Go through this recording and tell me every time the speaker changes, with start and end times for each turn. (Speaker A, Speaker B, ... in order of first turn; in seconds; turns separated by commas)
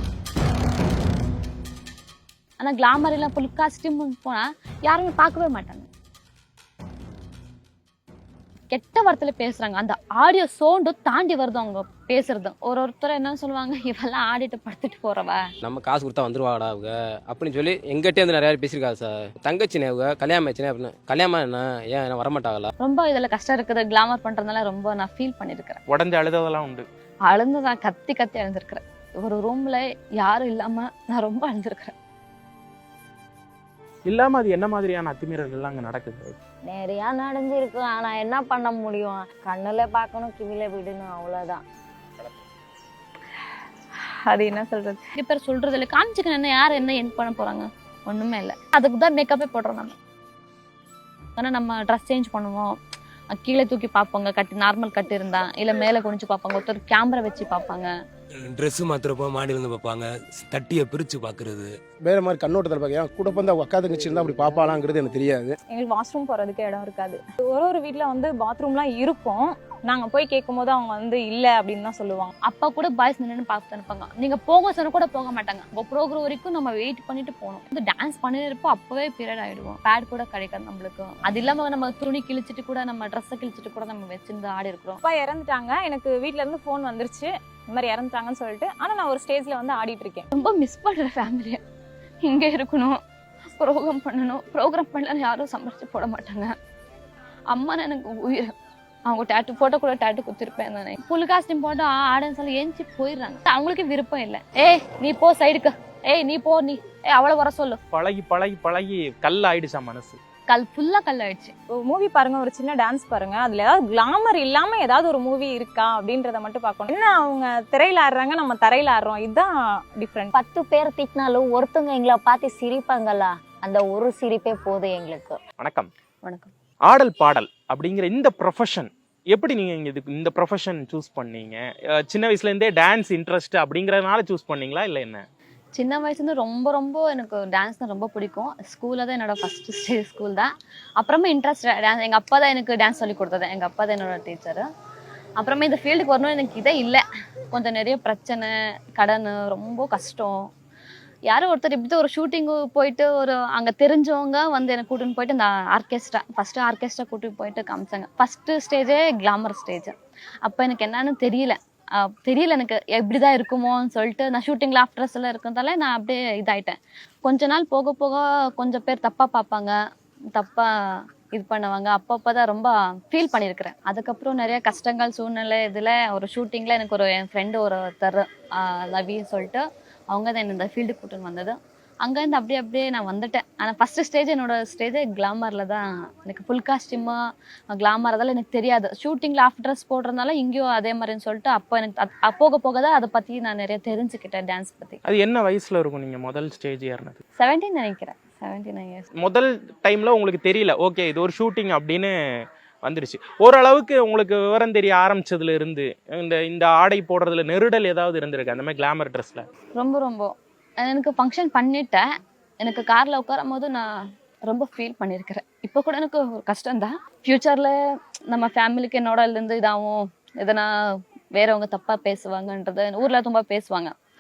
Speaker A: 2.6-5.9, Speaker A: 8.7-15.4, Speaker B: 15.6-22.7, Speaker A: 22.8-25.8, Speaker C: 25.9-26.9, Speaker A: 27.2-31.9, Speaker C: 34.1-36.4, Speaker D: 36.6-41.6, Speaker E: 44.2-45.0, Speaker A: 45.1-50.0, Speaker A: 51.4-52.7, Speaker A: 53.3-57.9, Speaker F: 58.4-61.8, Speaker G: 62.0-65.5, Speaker E: 65.7-72.3, Speaker A: 72.4-85.0, Speaker E: 85.0-90.2, Speaker A: 90.3-91.6, Speaker A: 92.2-93.0, Speaker A: 93.6-96.5, Speaker A: 97.5-98.5, Speaker A: 99.1-107.8, Speaker C: 107.9-110.2, Speaker A: 110.5-111.5, Speaker E: 111.7-120.3, Speaker D: 120.3-125.4, Speaker C: 125.6-125.9, Speaker A: 126.2-126.5, Speaker C: 126.9-135.2, Speaker A: 135.7-144.6, Speaker A: 145.4-150.4, Speaker A: 151.3-159.9, Speaker A: 160.4-169.7, Speaker A: 170.3-187.2, Speaker A: 187.7-195.0, Speaker C: 195.1-197.2, Speaker A: 197.4-199.1, Speaker C: 199.2-202.1, Speaker C: 202.8-209.4, Speaker A: 209.8-212.0, Speaker A: 212.6-213.9, Speaker A: 214.5-217.8, Speaker A: 218.3-220.7, Speaker A: 221.3-223.9